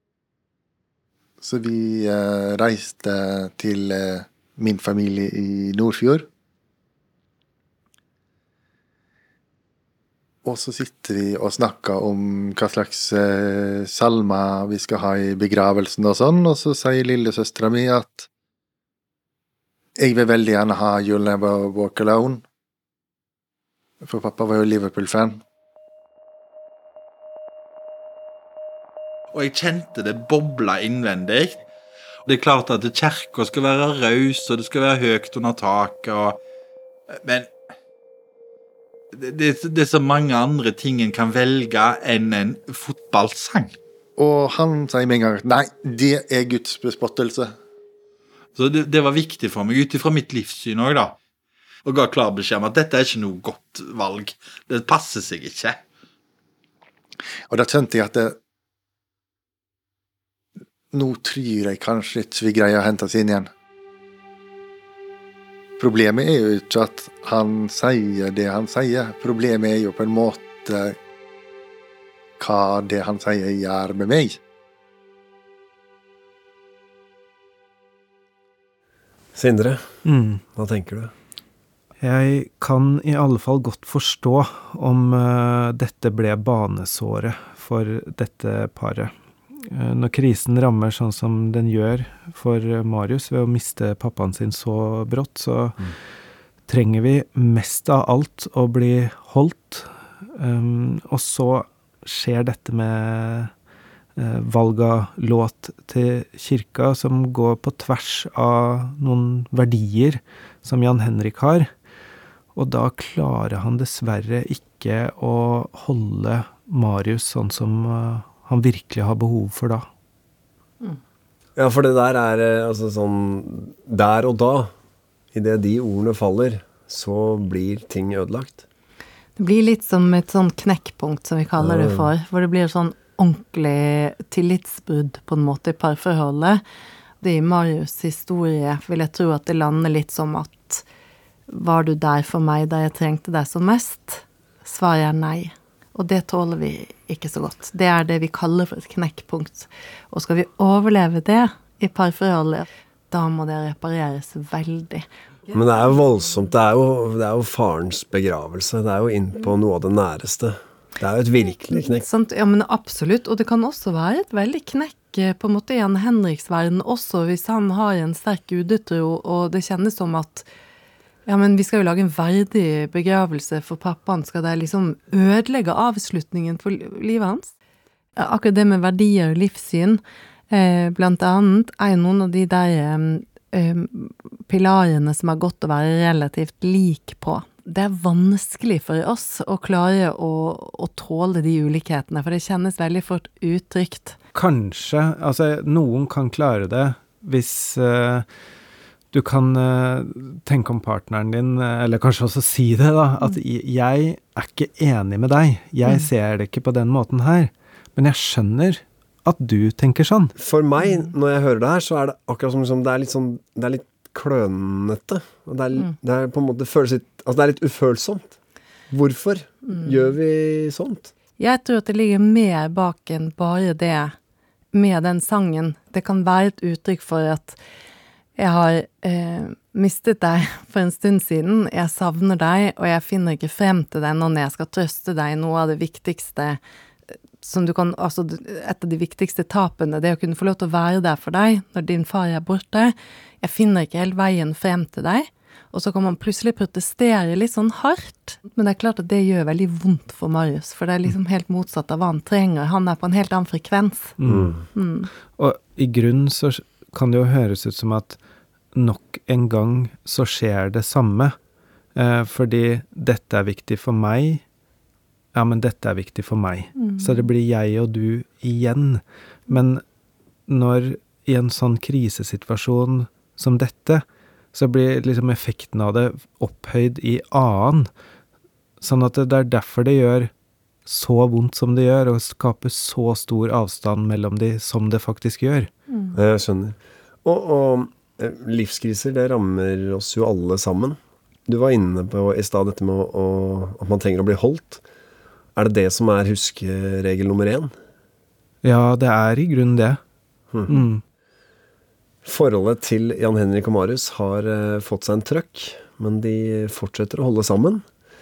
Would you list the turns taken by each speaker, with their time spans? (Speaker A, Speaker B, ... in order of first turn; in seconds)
Speaker A: 1.4-6.3, 10.4-18.3, 20.0-22.4, 24.0-25.4, 44.2-47.5, 57.5-58.4, 60.9-63.5, 65.8-71.0, 72.4-74.4
Speaker B: 29.3-31.6, 32.3-36.4, 37.1-37.5, 39.1-43.8, 48.6-51.2, 51.9-55.8
Speaker C: 79.3-80.0, 80.5-81.1, 121.6-124.7, 125.3-128.6, 131.6-132.1, 155.5-162.1, 210.4-218.3, 218.9-221.1, 254.3-254.6, 286.1-294.8, 295.6-297.7, 300.5-300.8, 302.2-307.9
Speaker D: 80.0-80.4, 82.0-89.1, 89.6-95.9, 96.7-103.5, 104.2-111.7, 112.5-119.9, 194.3-198.3, 199.1-210.3, 254.2-254.6, 255.3-258.2, 258.8-261.4, 261.9-264.4, 265.3-269.8, 270.5-277.9, 278.8-280.3, 280.9-285.7, 298.6-300.0, 300.7-301.0
Speaker E: 129.4-136.6, 137.2-140.8, 141.5-155.6, 161.7-170.5, 171.3-177.5, 178.2-194.2, 221.4-224.1, 224.7-227.6, 228.4-236.6, 237.4-254.2, 254.7-255.1, 266.8-267.3